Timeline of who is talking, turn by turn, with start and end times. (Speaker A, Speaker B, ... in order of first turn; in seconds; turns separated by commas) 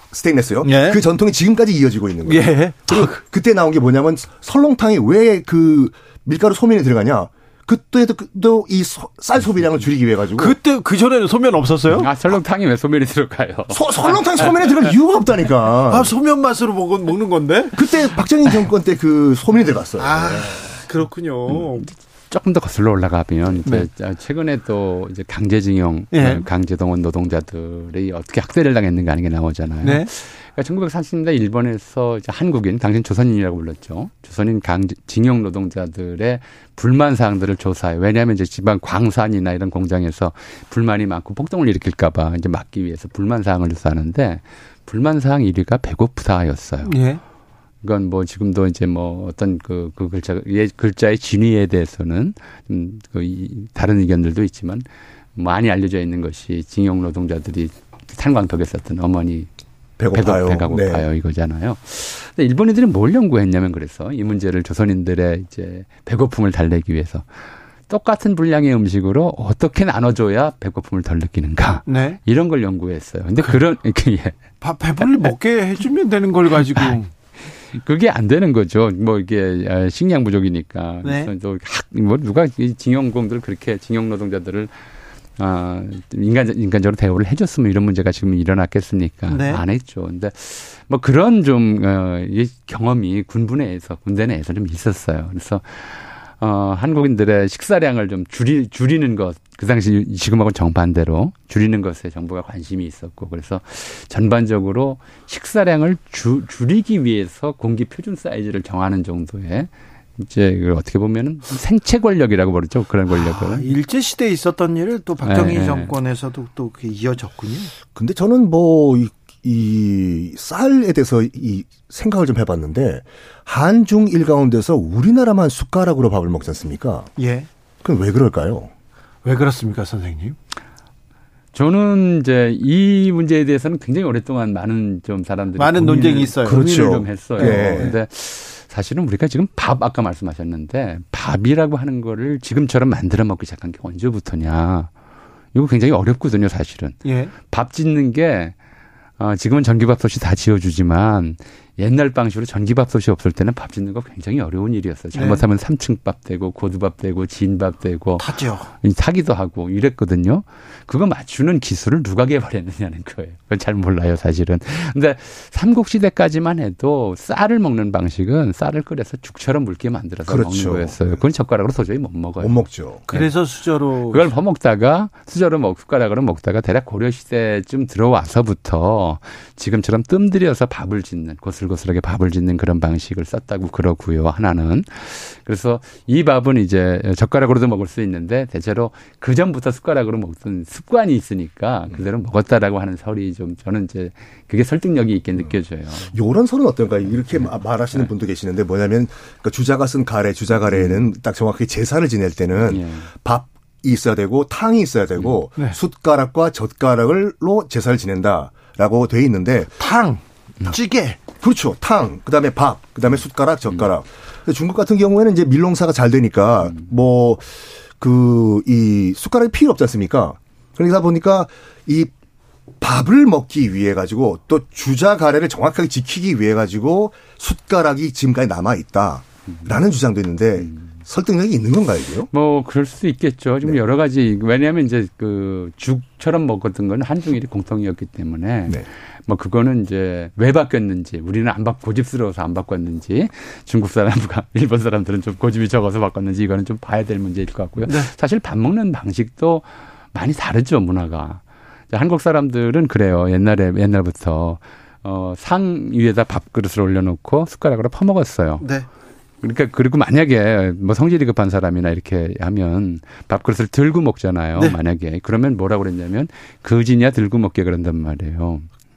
Speaker A: 0.1-10.6, Speaker B: 0.6-1.0, Speaker B: 2.2-3.2, Speaker B: 10.4-12.1, Speaker C: 11.9-14.9, Speaker A: 13.7-16.1, Speaker B: 15.9-18.0, Speaker A: 17.8-20.7, Speaker B: 20.0-21.9, Speaker C: 21.5-47.0, Speaker B: 26.1-26.5, Speaker B: 29.8-30.1, Speaker B: 46.9-47.2, Speaker C: 47.8-54.9, Speaker C: 55.4-59.5, Speaker A: 60.0-61.0, Speaker C: 60.1-67.3, Speaker C: 67.9-74.4, Speaker B: 71.9-72.2, Speaker B: 74.6-77.1, Speaker C: 75.0-75.3, Speaker C: 76.7-77.0, Speaker C: 77.7-84.7, Speaker B: 81.0-81.3, Speaker C: 85.4-113.7, Speaker B: 89.3-89.6, Speaker B: 113.1-117.7, Speaker C: 115.2-115.9, Speaker A: 117.9-127.1, Speaker B: 127.2-127.5, Speaker A: 127.8-128.7, Speaker B: 129.2-130.4, Speaker C: 131.5-144.9, Speaker B: 135.6-136.7, Speaker A: 136.4-137.9, Speaker B: 137.4-138.0, Speaker C: 145.5-148.6, Speaker B: 147.1-147.3, Speaker C: 149.2-173.3, Speaker B: 155.2-155.4, Speaker B: 158.2-158.7, Speaker A: 170.3-171.1, Speaker A: 172.4-173.1, Speaker B: 173.1-174.3, Speaker C: 174.1-196.2, Speaker A: 196.1-209.7, Speaker C: 197.3-198.1, Speaker C: 200.7-201.0, Speaker C: 202.6-203.1, Speaker C: 205.2-205.4, Speaker B: 209.8-211.2, Speaker A: 211.4-217.5, Speaker A: 218.0-222.1, Speaker A: 222.8-232.3, Speaker C: 229.5-229.8, Speaker C: 230.6-230.9, Speaker C: 232.3-258.7, Speaker B: 258.6-258.9, Speaker C: 259.4-268.7